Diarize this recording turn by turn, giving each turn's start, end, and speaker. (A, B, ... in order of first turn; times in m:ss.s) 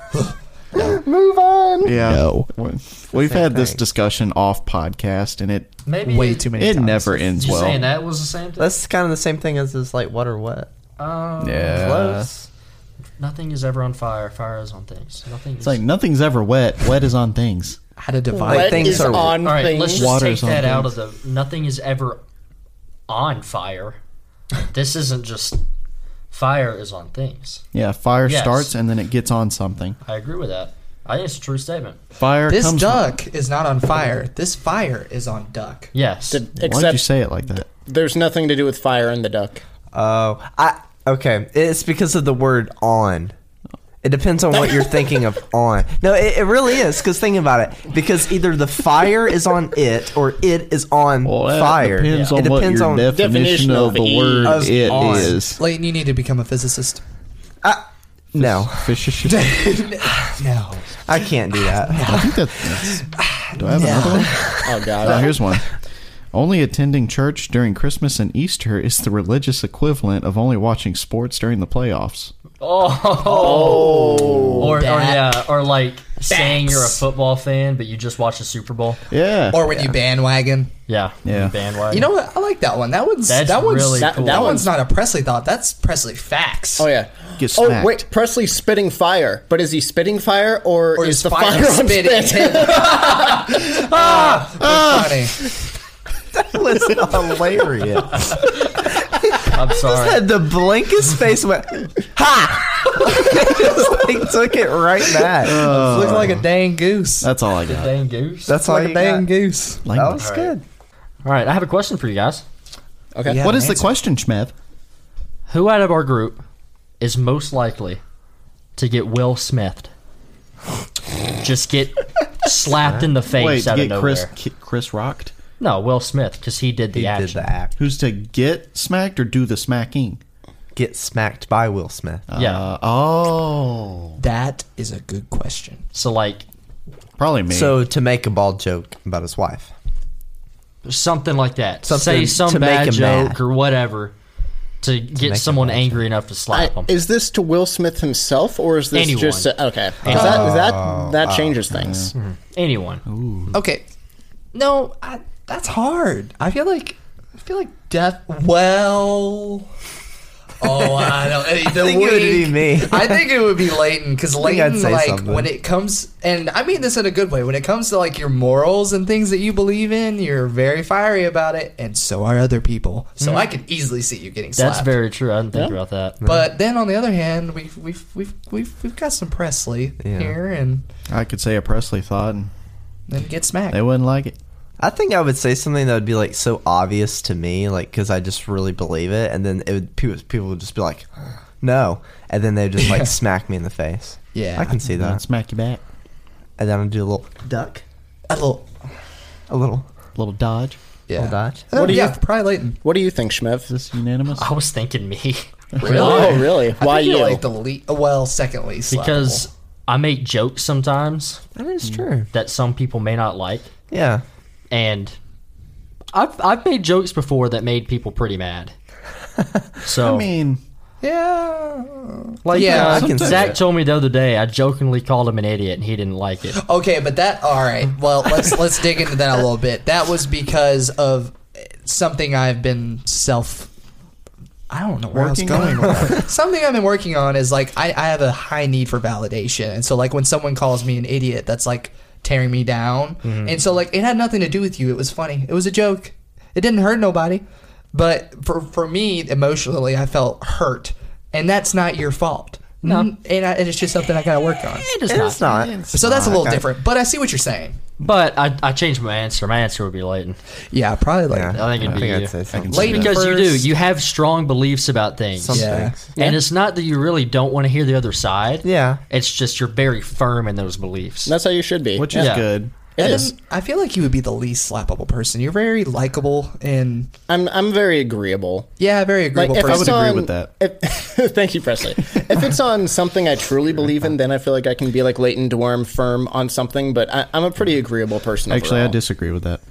0:00.1-0:00.9 A
0:00.7-0:02.0 B
0:01.8-0:05.7 C
0:02.0-0:02.5 A
0:03.1-0:03.8 D
0:05.8-0:06.5 E
0:06.0-0:07.8 A
0:06.6-0:07.8 C
0:07.4-0:08.7 E
0:08.6-0:10.7 D
0:11.0-0:12.1 E
0:11.4-0:12.3 C
0:11.7-0:12.5 D
0:13.2-0:15.8 E
0:15.6-0:17.8 C
0:18.0-0:19.3 A
0:18.4-0:19.6 D
0:18.4-0:20.1 B
0:19.4-0:22.2 E
0:19.7-0:20.9 C
0:23.1-0:24.0 E
0:24.7-0:25.6 E
0:26.3-0:27.6 E
0:27.7-0:30.0 C
0:28.2-0:28.7 E
0:30.0-0:32.0 E
0:32.2-0:33.2 C
0:32.5-0:35.9 A
0:35.9-0:36.4 E
0:36.3-0:37.0 B
0:36.6-0:37.6 C
0:37.6-0:39.6 B
0:39.9-0:43.3 D
0:44.0-0:53.1 D
0:51.2-0:55.6 C
0:52.0-0:52.4 E
0:53.1-0:55.3 B
0:54.4-0:55.4 D
0:55.6-0:57.0 A
0:57.6-0:59.0 D
0:58.4-0:59.6 C
0:59.3-1:02.3 A
1:01.0-1:02.6 D
1:02.0-1:05.7 C
1:02.9-1:04.7 A
1:04.3-1:04.6 D
1:04.6-1:05.3 B
1:06.3-1:12.3 C
1:12.6-1:19.0 E
1:13.2-1:14.7 B
1:14.0-1:14.7 C
1:14.6-1:15.4 A
1:16.3-1:16.9 B
1:19.1-1:19.6 C
1:19.5-1:20.7 A
1:20.9-1:22.1 E
1:21.2-1:21.6 C
1:21.9-1:26.9 A
1:23.3-1:24.7 E
1:24.0-1:24.7 B
1:26.8-1:33.1 B
1:27.4-1:28.0 C
1:30.9-1:35.4 A
1:34.0-1:34.4 E
1:34.6-1:35.4 C
1:36.3-1:38.4 D
1:39.3-1:46.4 D
1:39.4-1:40.3 E
1:43.0-1:44.1 A
1:45.3-1:47.3 A
1:45.4-1:46.4 C
1:47.2-1:47.9 C
1:47.6-1:48.6 E
1:48.4-1:49.3 D
1:48.6-1:49.8 A
1:49.8-1:50.2 C
1:49.9-1:50.6 D
1:50.2-1:50.5 E
1:51.2-1:52.4 E
1:53.1-1:53.4 B
1:53.2-1:53.9 A
1:53.4-1:54.5 C
1:55.5-1:56.4 E
1:57.0-1:58.0 E
1:58.8-1:59.9 E
2:01.4-2:04.3 E
2:02.9-2:05.3 C
2:05.6-2:07.5 E
2:06.9-2:07.7 D
2:07.8-2:10.2 C
2:10.7-2:12.3 D
2:12.3-2:14.2 C
2:12.3-2:12.7 E
2:14.2-2:15.8 A
2:15.9-2:16.4 E
2:17.2-2:17.8 C
2:17.5-2:19.7 D
2:20.8-2:24.1 E
2:21.8-2:23.4 D
2:24.8-2:26.9 E
2:25.2-2:26.0 D
2:26.5-2:32.1 B
2:28.9-2:30.6 E
2:30.1-2:31.6 D
2:30.1-2:30.5 A
2:31.7-2:32.1 C
2:32.1-2:33.0 E
2:33.0-2:33.6 C
2:33.5-2:33.8 A
2:34.5-2:39.7 A
2:40.6-2:55.0 A
2:41.5-2:43.4 D
2:44.4-2:45.5 D
2:53.2-2:53.4 E
2:54.6-2:56.2 E
2:56.2-2:56.5 D
2:56.2-3:00.8 A
3:00.0-3:00.3 D
3:01.1-3:02.5 C
3:03.1-3:03.8 A
3:03.7-3:04.3 C
3:04.8-3:11.1 D
3:11.6-3:15.2 D
3:12.8-3:13.1 A
3:14.3-3:14.8 A
3:14.9-3:15.8 C
3:16.6-3:17.8 D
3:18.3-3:18.7 A
3:19.5-3:19.9 D
3:20.2-3:20.8 C
3:21.1-3:22.8 A
3:21.2-3:21.7 D
3:21.7-3:22.2 B
3:22.8-3:23.7 B
3:23.7-3:24.5 C
3:24.4-3:26.5 E
3:25.8-3:29.5 A
3:25.8-3:27.4 B
3:28.9-3:31.4 E
3:31.6-3:32.3 D
3:32.3-3:33.7 E
3:33.9-3:34.2 D
3:34.7-3:35.2 E
3:36.1-3:38.7 E
3:39.8-3:40.3 E
3:40.0-3:40.6 C
3:41.0-3:43.1 A
3:42.4-3:46.6 E
3:42.6-3:43.6 D
3:42.6-3:43.6 C
3:46.6-3:53.7 A
3:54.7-4:14.9 A
3:55.1-3:56.2 C
4:03.2-4:03.5 E
4:12.8-4:13.1 E
4:14.8-4:15.7 E
4:15.1-4:16.6 D
4:15.5-4:16.3 C
4:15.9-4:17.8 A
4:18.0-4:20.4 E
4:20.7-4:21.6 A
4:21.3-4:23.0 D
4:21.5-4:31.3 E
4:21.8-4:23.2 C
4:22.7-4:23.7 A
4:25.4-4:26.1 D
4:25.5-4:26.0 A
4:28.6-4:29.0 D
4:31.2-4:32.4 B
4:32.0-4:32.7 C
4:32.1-4:32.4 E
4:33.0-4:33.3 B
4:33.0-4:37.1 A
4:37.3-4:38.7 B
4:38.8-4:40.1 A
4:39.3-4:49.0 B
4:39.6-4:40.5 C
4:48.5-4:49.6 C